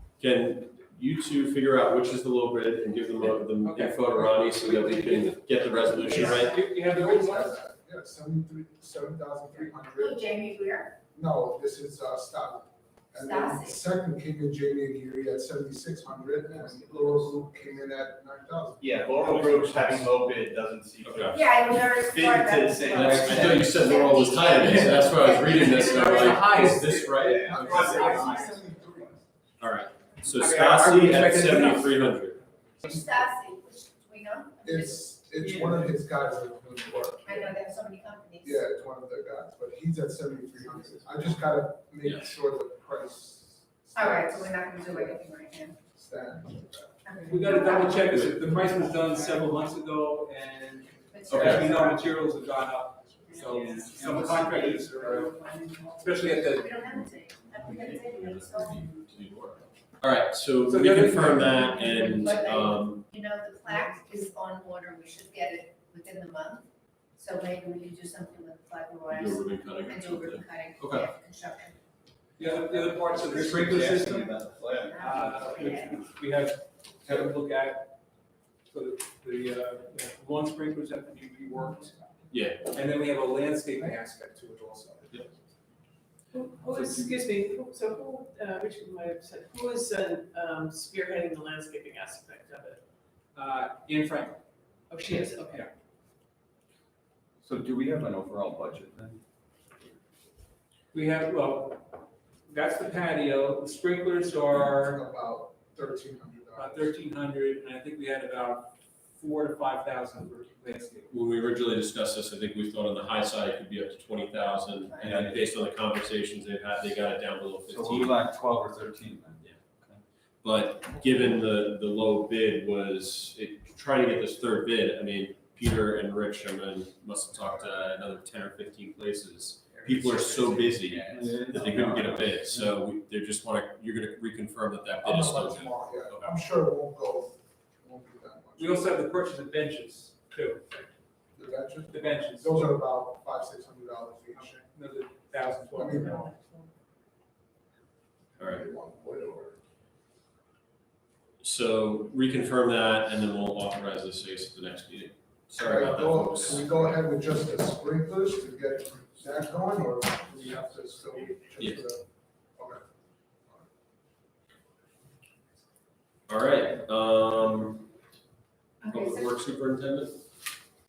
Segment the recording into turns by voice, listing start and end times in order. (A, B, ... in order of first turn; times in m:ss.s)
0:00.2-0:06.5 A
0:03.6-0:07.6 B
0:06.3-0:10.2 C
0:10.0-0:10.9 D
0:11.1-0:20.0 C
0:13.2-0:13.8 D
0:16.6-0:17.6 E
0:18.8-0:21.4 E
0:21.0-0:21.4 A
0:21.3-0:26.5 D
0:22.0-0:23.6 E
0:22.9-0:28.1 A
0:25.0-0:28.4 B
0:27.2-0:29.2 E
0:28.0-0:28.5 D
0:29.6-0:32.4 A
0:30.3-0:32.0 B
0:32.8-0:35.1 D
0:34.6-0:37.5 C
0:35.5-0:35.7 F
0:37.2-0:38.7 D
0:38.4-0:45.2 C
0:42.0-0:42.4 A
0:43.9-0:45.8 D
0:45.9-0:47.0 C
0:47.0-0:48.0 D
0:47.3-0:56.8 B
0:48.0-0:48.7 A
0:51.1-0:52.1 D
0:51.3-0:51.7 A
0:53.2-0:59.0 D
0:53.7-0:54.0 F
0:57.7-1:03.0 A
1:00.6-1:02.2 B
1:01.7-1:11.8 D
1:09.1-1:11.1 A
1:12.4-1:14.3 B
1:12.7-1:14.9 E
1:14.8-1:16.0 D
1:14.9-1:17.9 B
1:18.7-1:22.0 B
1:22.3-1:22.7 A
1:22.6-1:25.3 B
1:26.3-1:32.8 G
1:26.7-1:27.2 B
1:33.3-1:34.4 B
1:34.9-1:35.6 G
1:37.4-1:39.2 F
1:40.9-1:42.0 B
1:42.5-1:45.0 B
1:44.6-1:46.9 C
1:46.5-1:51.1 B
1:51.1-1:58.2 A
1:54.4-1:55.1 D
1:55.0-1:55.4 B
1:55.0-1:55.4 F
1:57.7-2:00.0 F
2:00.4-2:16.3 A
2:09.8-2:11.2 E
2:10.8-2:12.7 F
2:15.0-2:18.9 C
2:18.6-2:21.0 B
2:21.3-2:24.6 C
2:21.9-2:22.8 B
2:24.3-2:26.4 B
2:25.7-2:26.3 C
2:28.4-2:28.6 A
2:28.4-2:29.6 C
2:31.4-2:36.9 A
2:35.6-2:42.0 C
2:42.6-2:42.8 C
2:46.3-2:47.9 A
2:48.8-2:49.3 D
2:48.9-2:50.2 A